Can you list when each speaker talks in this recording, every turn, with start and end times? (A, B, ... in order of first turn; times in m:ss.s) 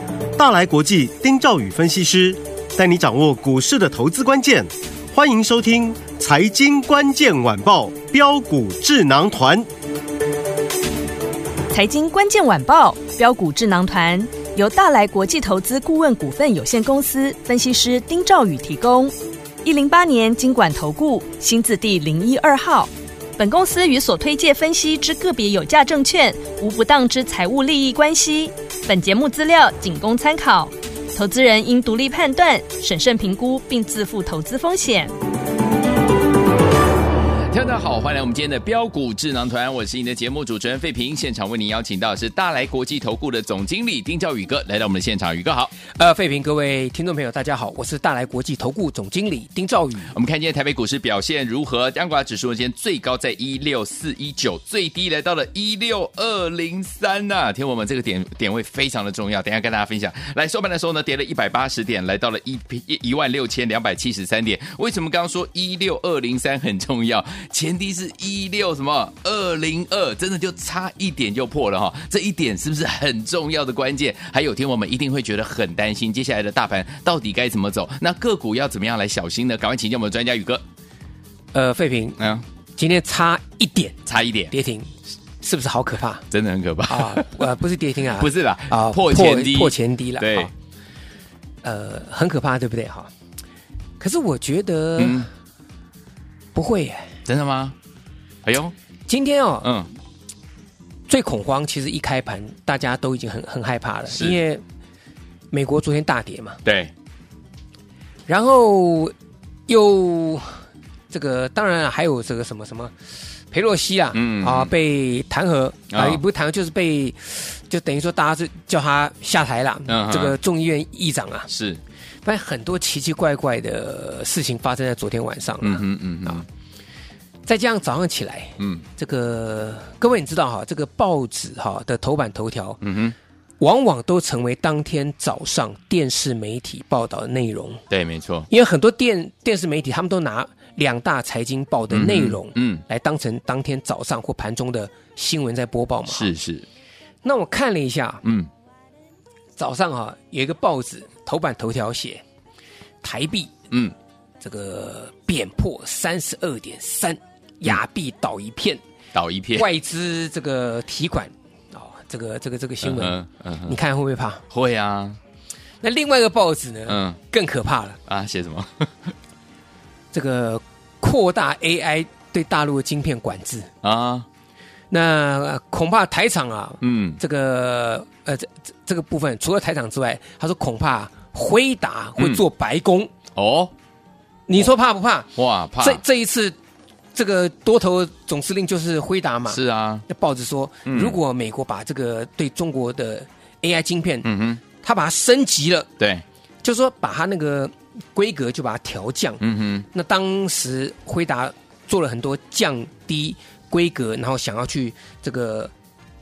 0:00.4-0:09.7 A
0:11.7-0:35.1 B
0:37.5-0:45.7 C
0:46.0-0:50.1 D
0:50.1-1:20.6 C
1:21.5-1:22.2 D
1:22.8-1:24.0 D
1:24.0-1:24.5 C
1:24.5-1:26.2 D
1:26.3-1:27.5 C
1:26.9-1:30.5 D
1:28.2-1:30.5 C
1:31.6-1:33.1 D
1:34.0-1:35.3 D
1:35.0-1:35.3 C
1:36.5-1:37.1 D
1:37.2-1:37.7 C
1:38.4-1:38.7 C
1:39.1-1:39.7 D
1:39.6-1:39.9 C
1:41.1-1:44.6 D
1:44.1-1:44.4 C
1:45.5-1:46.6 D
1:46.6-1:46.9 C
1:48.3-1:49.1 D
1:49.7-1:50.6 D
1:51.1-1:52.9 D
1:53.5-2:01.5 D
1:54.1-1:54.7 C
1:55.9-1:56.2 C
1:59.9-2:00.3 C
2:01.5-2:01.8 C
2:02.2-2:06.4 D
2:05.6-2:06.4 C
2:07.5-2:12.8 D
2:08.6-2:08.8 C
2:12.8-2:13.2 C
2:13.6-2:17.8 D
2:17.9-2:18.5 C
2:18.5-2:26.3 D
2:21.9-2:22.8 C
2:26.1-2:26.6 C
2:27.2-2:28.2 D
2:28.2-2:28.5 C
2:29.6-2:32.2 D
2:33.0-2:33.5 D
2:34.4-2:38.8 D
2:39.1-2:39.7 C
2:39.5-2:44.4 D
2:42.8-2:43.8 C
2:44.5-2:45.2 C
2:45.8-2:48.0 D
2:46.9-2:47.2 C
2:48.1-2:49.1 C
2:50.1-2:53.7 D
2:53.8-2:54.2 C
2:54.9-3:03.1 D
2:56.8-2:57.2 C
3:03.3-3:03.7 C
3:04.5-3:06.6 D
3:05.4-3:06.0 C
3:07.1-3:15.9 D
3:09.5-3:10.0 C
3:10.9-3:11.2 C
3:14.2-3:14.6 C
3:16.0-3:16.2 C
3:16.6-3:19.4 D
3:19.4-3:19.9 C
3:19.9-3:25.7 D